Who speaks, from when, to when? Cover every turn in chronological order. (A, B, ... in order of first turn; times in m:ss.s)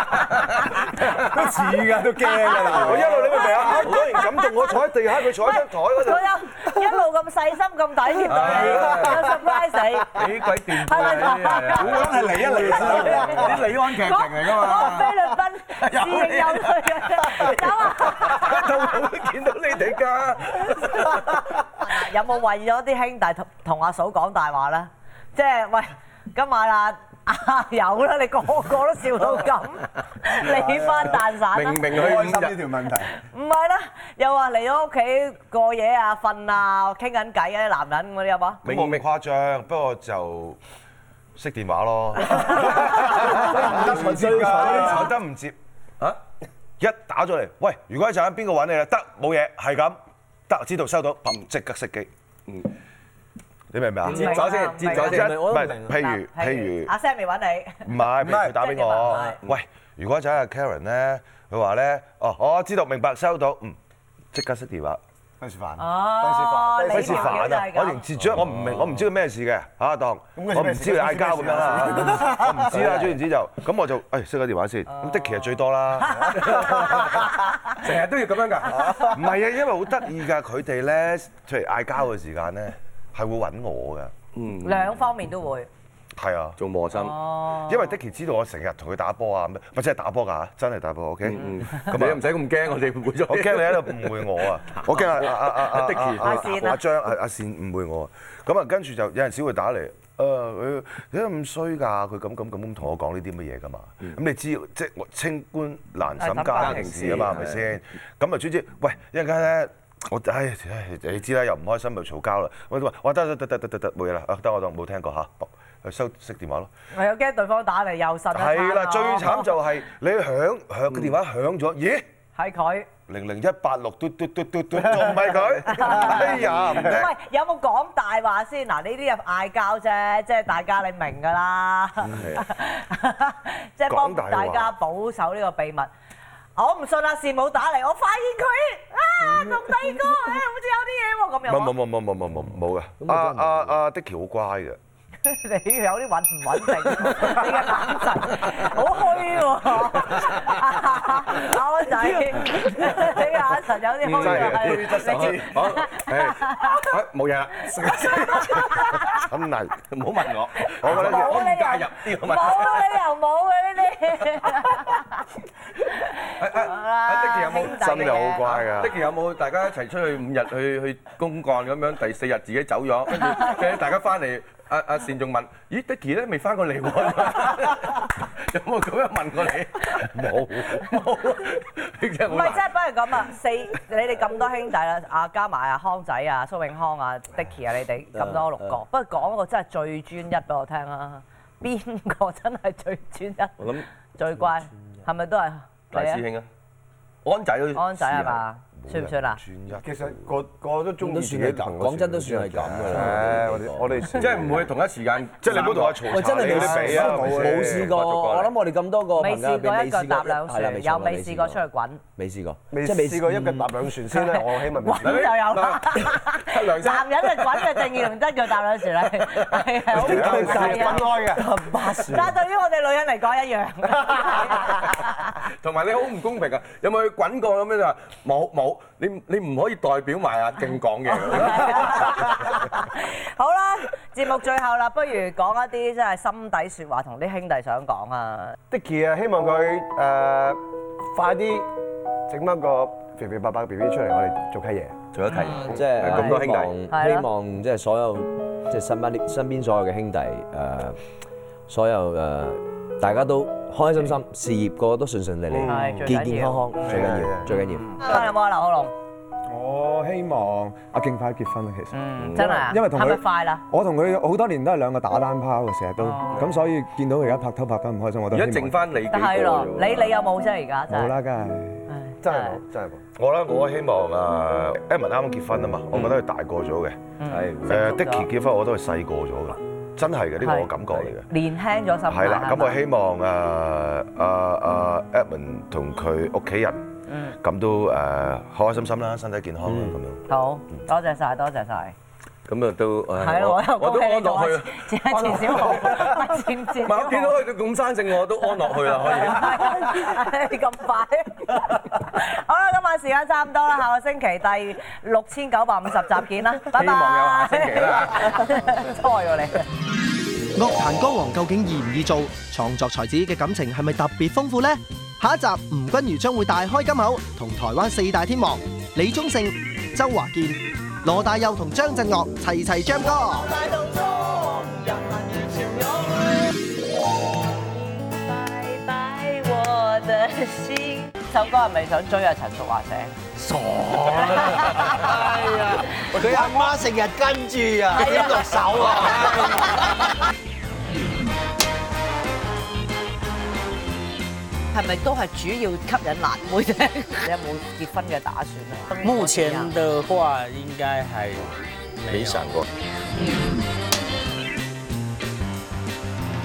0:01.2-0:03.3 A
0:02.2-0:12.1 B
0:02.6-0:06.3 C
0:03.7-0:04.0 D
0:08.3-0:09.4 D
0:08.5-0:09.0 A
0:10.1-0:21.4 D
0:11.6-0:13.7 A
0:12.1-0:13.0 E
0:12.7-0:19.0 B
0:21.0-0:32.1 B
0:30.4-0:31.3 A
0:31.5-0:32.6 D
0:31.8-0:33.1 A
0:33.1-0:38.6 B
0:38.6-0:40.6 C
0:38.6-0:39.0 D
0:41.3-0:45.5 C
0:42.9-0:45.1 A
0:43.6-0:45.0 F
0:46.8-0:52.1 C
0:53.7-0:56.9 C
0:54.0-0:55.6 D
0:54.0-0:59.4 B
0:54.9-0:56.0 F
0:57.8-1:03.8 C
0:58.2-0:58.6 A
1:04.3-1:05.0 C
1:05.4-1:07.6 E
1:05.8-1:08.0 B
1:06.9-1:17.0 C
1:08.3-1:09.0 D
1:10.3-1:13.1 E
1:15.0-1:15.5 B
1:16.1-1:17.7 B
1:16.3-1:17.2 D
1:17.7-1:19.1 D
1:19.1-1:24.1 C
1:24.3-1:25.0 D
1:24.6-1:25.7 B
1:26.2-1:26.6 C
1:26.6-1:27.2 D
1:26.9-1:28.0 B
1:27.5-1:32.3 C
1:31.2-1:36.6 D
1:33.3-1:56.7 C
1:36.2-1:36.8 B
1:46.2-1:47.1 B
1:46.5-1:47.7 D
1:56.9-1:59.5 B
1:58.3-2:02.0 C
2:02.4-2:02.9 B
2:03.1-2:07.1 C
2:05.7-2:15.9 B
2:06.1-2:06.8 D
2:12.0-2:12.4 D
2:13.9-2:14.7 C
2:16.6-2:21.7 B
2:21.4-2:24.8 C
2:23.1-2:23.4 F
2:25.2-2:36.9 B
2:27.2-2:27.5 D
2:28.4-2:28.7 D
2:29.9-2:30.5 D
2:34.0-2:39.0 D
2:34.1-2:35.5 C
2:37.7-2:39.2 B
2:38.9-2:39.8 C
2:39.9-2:43.0 D
2:40.6-2:45.0 B
2:40.8-2:41.4 C
2:46.0-2:48.5 B
2:46.4-3:02.6 D
2:47.5-2:49.0 C
3:00.1-3:00.5 C
3:02.3-3:16.2 B
3:08.2-3:08.5 F
3:13.6-3:13.8 D
3:15.9-3:16.5 D
3:17.2-3:18.4 D
3:17.7-3:19.4 B
3:18.8-3:20.3 C
3:19.7-3:24.7 E
3:21.0-3:24.4 F
3:22.7-3:23.4 C
3:24.1-3:26.5 D
3:25.4-3:28.5 C
3:25.5-3:25.8 E
3:26.1-3:31.6 F
3:26.4-3:27.9 E
3:27.0-3:27.7 A
3:29.2-3:32.0 B
3:32.2-3:33.7 F
3:32.7-3:35.4 E
3:34.1-3:45.2 B
3:35.0-3:38.1 D
3:39.0-3:41.1 D
3:39.9-3:42.2 E
3:41.4-3:42.2 F
3:45.4-3:52.5 D
3:51.1-3:58.6 B
3:58.7-4:00.6 E
4:01.1-4:01.7 E
4:02.3-4:05.0 E
4:05.1-4:06.7 D
4:05.3-4:05.8 B
4:05.6-4:11.0 F
4:06.9-4:07.3 B
4:11.7-4:17.9 F
4:15.5-4:15.8 E
4:15.7-4:16.9 B
4:16.8-4:17.6 E
4:18.0-4:18.9 B
4:19.5-4:28.8 A
4:21.9-4:23.6 B
4:22.2-4:22.6 D
4:26.0-4:26.5 B
4:28.3-4:30.2 D
4:29.1-4:31.2 B
4:30.9-4:31.8 A
4:31.9-4:32.6 B
4:32.2-4:33.0 E
4:33.2-4:37.0 C
4:37.2-4:38.3 B
4:37.3-4:37.6 D
4:37.6-4:41.3 C
4:40.4-4:40.7 B
4:41.3-4:42.8 B
4:42.1-4:46.8 C
4:47.1-4:47.4 B
4:47.4-4:50.2 C
4:49.6-4:50.0 F
4:50.3-4:51.9 B
4:52.5-4:56.3 D
4:53.2-4:57.4 B
4:56.8-4:59.9 D
4:58.9-5:09.7 B
5:06.7-5:08.6 D
5:10.5-5:23.5 G
5:22.9-5:26.5 B
5:28.0-5:33.2 B
5:33.4-5:39.3 H
5:34.1-5:36.7 B
5:36.2-5:36.4 E
5:36.4-5:39.5 G
5:37.9-5:39.9 B
5:44.7-5:49.8 B
5:49.0-5:52.6 H
5:52.1-5:52.6 D